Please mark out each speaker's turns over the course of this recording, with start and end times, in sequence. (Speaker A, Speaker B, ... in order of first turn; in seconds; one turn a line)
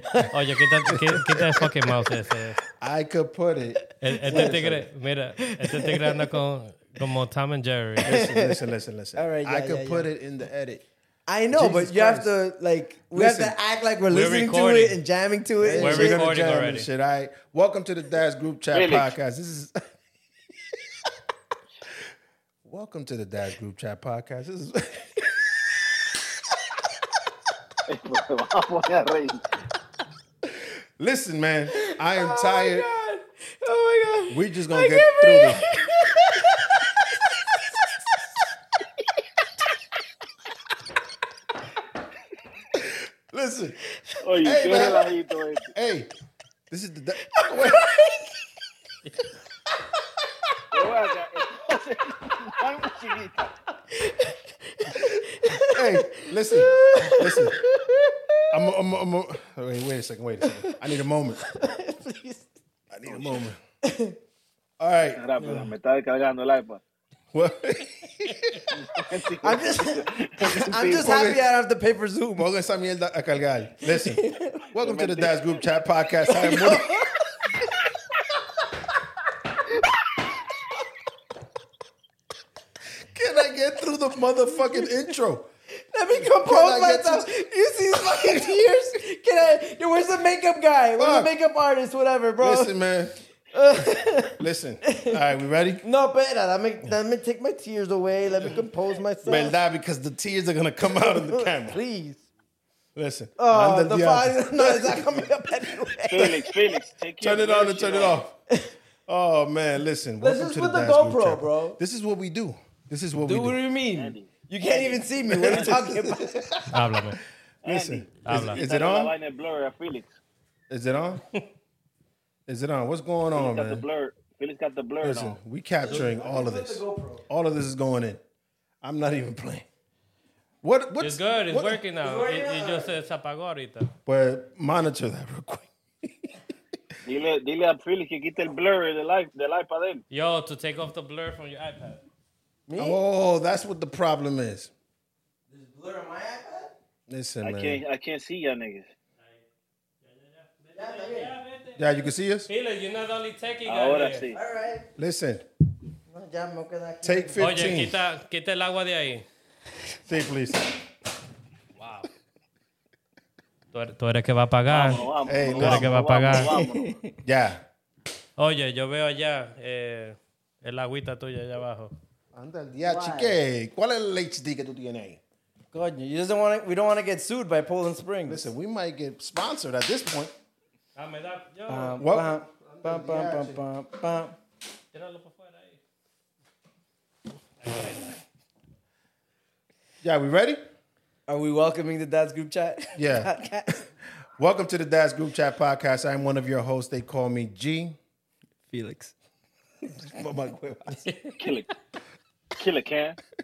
Speaker A: 0.3-2.6
Speaker B: 0.9-1.2
Speaker B: 2.8-4.9
Speaker A: 4.0-8.2
Speaker C: 4.3-4.5
Speaker C: 5.6-6.3
Speaker B: 8.0-10.8
Speaker C: 8.1-8.6
Speaker C: 9.2-10.1
Speaker C: 11.3-16.3
Speaker B: 11.5-12.3
Speaker B: 13.1-13.6
Speaker A: 14.1-15.0
Speaker B: 15.6-19.8
Speaker A: 15.7-16.9
Speaker D: 18.7-19.1
Speaker B: 22.6-25.3
Speaker D: 27.9-29.4
Speaker B: 31.0-32.9
Speaker C: 32.1-38.2
Speaker B: 34.3-35.6
Speaker B: 42.7-43.8
Speaker C: 44.2-45.0
Speaker D: 44.2-45.7
Speaker B: 44.4-45.1
Speaker B: 45.7-46.1
Speaker B: 46.7-47.8
Speaker C: 47.3-48.3
Speaker D: 50.7-53.5
Speaker C: 53.9-58.4
Speaker B: 55.7-57.6
Speaker B: 58.5-61.4
Speaker C: 60.4-60.8
Speaker C: 61.4-62.5
Speaker B: 62.9-63.6
Speaker D: 63.0-63.4
Speaker C: 63.9-64.2
Speaker B: 64.8-65.4
Speaker D: 65.2-66.8
Speaker B: 67.3-68.7
Speaker D: 68.7-71.0
Speaker C: 69.4-72.5
Speaker B: 70.9-71.5
Speaker B: 72.3-77.0
Speaker C: 73.9-74.7
Speaker D: 74.8-75.6
Speaker C: 76.3-77.4
Speaker B: 83.1-85.5
Speaker C: 84.6-84.8
Speaker C: 85.9-92.8
Speaker B: 86.2-87.3
Speaker B: 88.0-88.5
Speaker B: 91.0-91.3
Speaker B: 92.4-93.2
Speaker C: 93.5-95.2
Speaker B: 94.4-95.8
Speaker C: 95.8-99.5
Speaker B: 99.2-101.8
Speaker C: 100.8-102.2
Speaker B: 102.9-105.3
Speaker C: 103.4-106.5
Speaker D: 106.1-108.2
Speaker B: 107.2-108.3
Speaker B: 109.1-113.6
Speaker C: 110.2-111.8
Speaker C: 113.2-116.3
Speaker D: 113.9-115.8
Speaker B: 115.3-116.8
Speaker A: 116.7-117.2
Speaker D: 117.6-120.2
Speaker B: 117.6-119.1
Speaker A: 118.2-118.6
Speaker B: 120.7-121.2
Speaker B: 122.5-123.9
Speaker D: 123.3-125.4
Speaker B: 125.0-128.2
Speaker C: 125.8-127.2
Speaker B: 128.8-129.7
Speaker B: 130.6-131.8
Speaker A: 131.0-133.9
Speaker C: 132.0-132.9
Speaker B: 134.1-136.3
Speaker D: 137.0-140.0
Speaker A: 140.1-142.0
Speaker C: 142.7-143.0
Speaker B: 142.8-144.7
Speaker C: 145.5-146.7
Speaker B: 147.1-147.8
Speaker D: 147.4-148.9
Speaker A: 149.2-149.4
Speaker A: 150.0-151.9
Speaker C: 150.7-151.3
Speaker B: 151.8-152.5
Speaker A: 152.5-154.3
Speaker D: 153.6-154.4
Speaker C: 154.3-154.8
Speaker B: 154.9-155.4
Speaker C: 156.1-157.5
Speaker B: 157.0-158.0
Speaker A: 157.4-159.2
Speaker B: 160.0-160.7
Speaker A: 161.8-162.1
Speaker A: 163.7-166.5
Speaker D: 164.7-167.0
Speaker B: 165.2-165.9
Speaker C: 166.7-167.1
Speaker B: 167.2-167.6
Speaker A: 168.4-171.9
Speaker B: 172.3-175.2
Speaker C: 172.8-173.4
Speaker C: 175.7-178.5
Speaker B: 178.2-180.3
Speaker A: 180.9-182.0
Speaker C: 181.7-184.3
Speaker B: 182.0-183.6
Speaker A: 184.9-185.8
Speaker A: 187.6-188.2
Speaker B: 190.0-190.6
Speaker C: 191.3-193.8
Speaker B: 192.9-193.3
Speaker B: 194.3-198.0
Speaker C: 198.7-199.1
Speaker B: 200.0-201.0
Speaker D: 201.4-201.7
Speaker D: 202.6-203.2